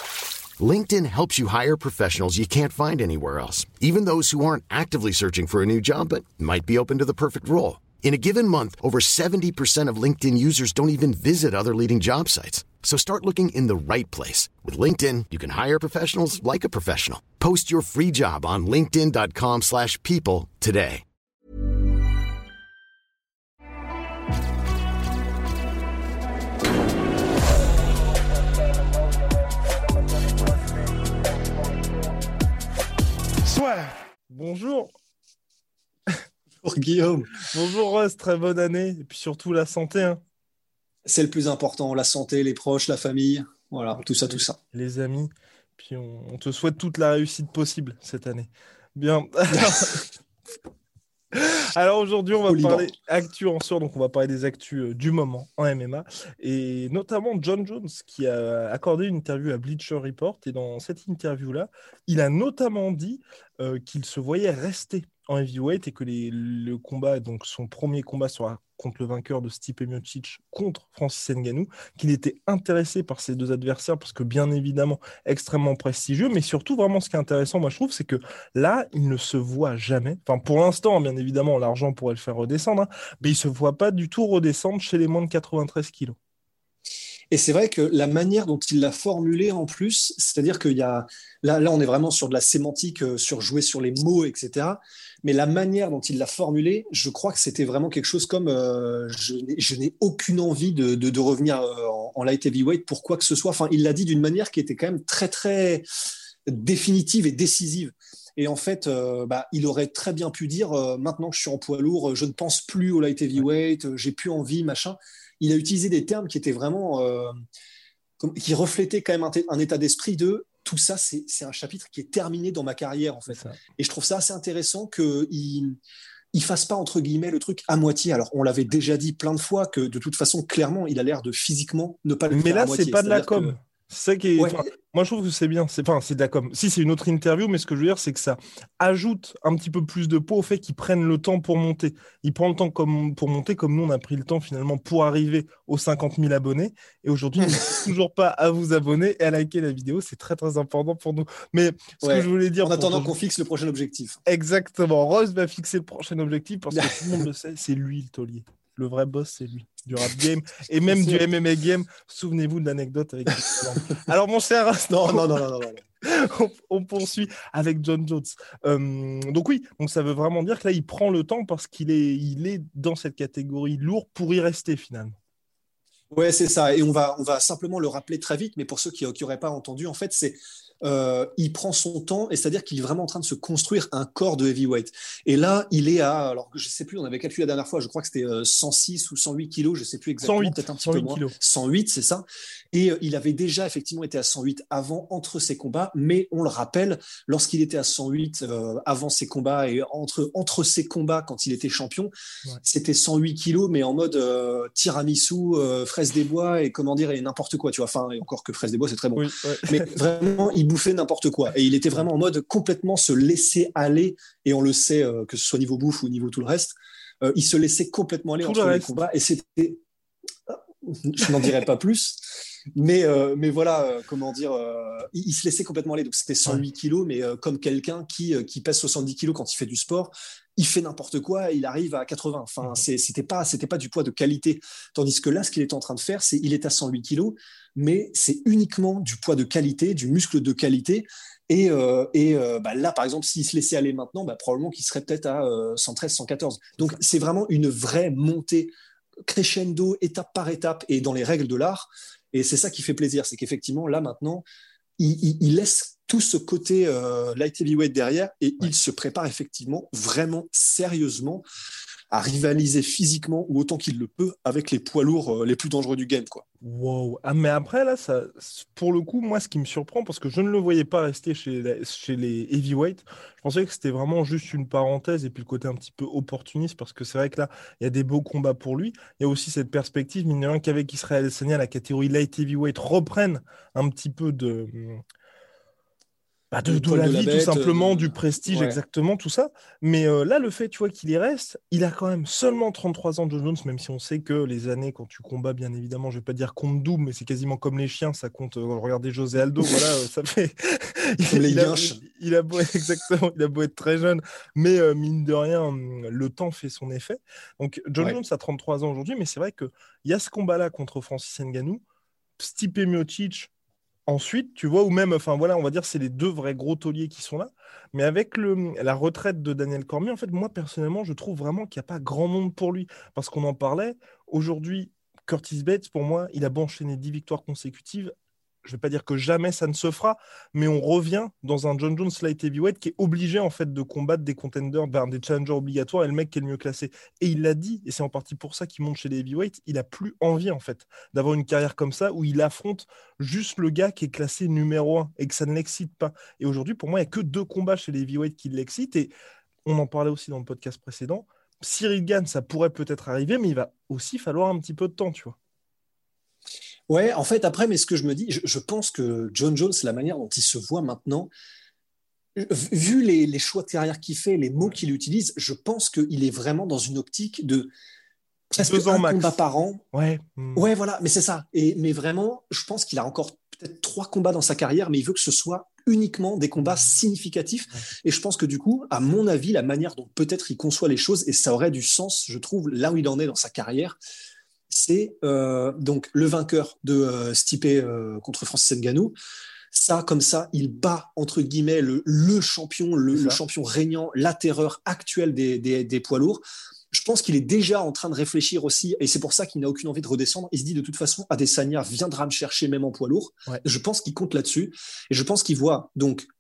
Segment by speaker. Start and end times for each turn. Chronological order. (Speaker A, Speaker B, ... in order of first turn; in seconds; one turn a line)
Speaker A: 0.6-21.0
Speaker B: 33.5-34.9
Speaker C: 36.6-37.4
Speaker B: 37.4-40.2
Speaker C: 41.1-44.6
Speaker B: 44.7-50.0
Speaker C: 49.5-50.0
Speaker B: 51.3-86.2
Speaker C: 52.5-52.9
Speaker C: 87.3-105.9
Speaker C: 106.5-117.3
Speaker C: 118.2-125.8
Speaker B: 123.3-123.6
Speaker C: 126.3-133.6
Speaker B: 132.3-153.2
Speaker C: 134.4-134.7
Speaker C: 147.4-147.7
Speaker C: 152.0-154.2
Speaker B: 154.3-165.3
Speaker C: 156.7-157.2
Speaker C: 160.9-161.2
Speaker C: 164.9-165.8
Speaker B: 166.0-175.2
Speaker C: 176.1-202.1
Speaker B: 190.2-191.3
Speaker C: 202.6-219.8
Speaker B: 209.2-210.0
Speaker B: 218.4-218.9
Speaker C: 220.5-222.2
Speaker C: 222.8-248.7
Speaker C: 249.2-254.5
Speaker C: 255.0-261.5
Speaker C: 262.1-266.4
Speaker B: 266.6-285.0
Speaker B: 286.5-311.8
Speaker C: 286.7-288.8
Speaker C: 301.3-302.0
Speaker B: 312.4-313.5
Speaker B: 314.1-328.1
Speaker B: 328.6-349.1
Speaker B: 349.6-355.4
Speaker C: 356.9-361.3
Speaker C: 362.4-367.7
Speaker C: 368.5-369.8
Speaker B: 368.6-369.4
Speaker B: 369.9-370.7
Speaker C: 370.6-384.0
Speaker C: 384.7-389.2
Speaker C: 389.7-406.3
Speaker B: 393.1-393.4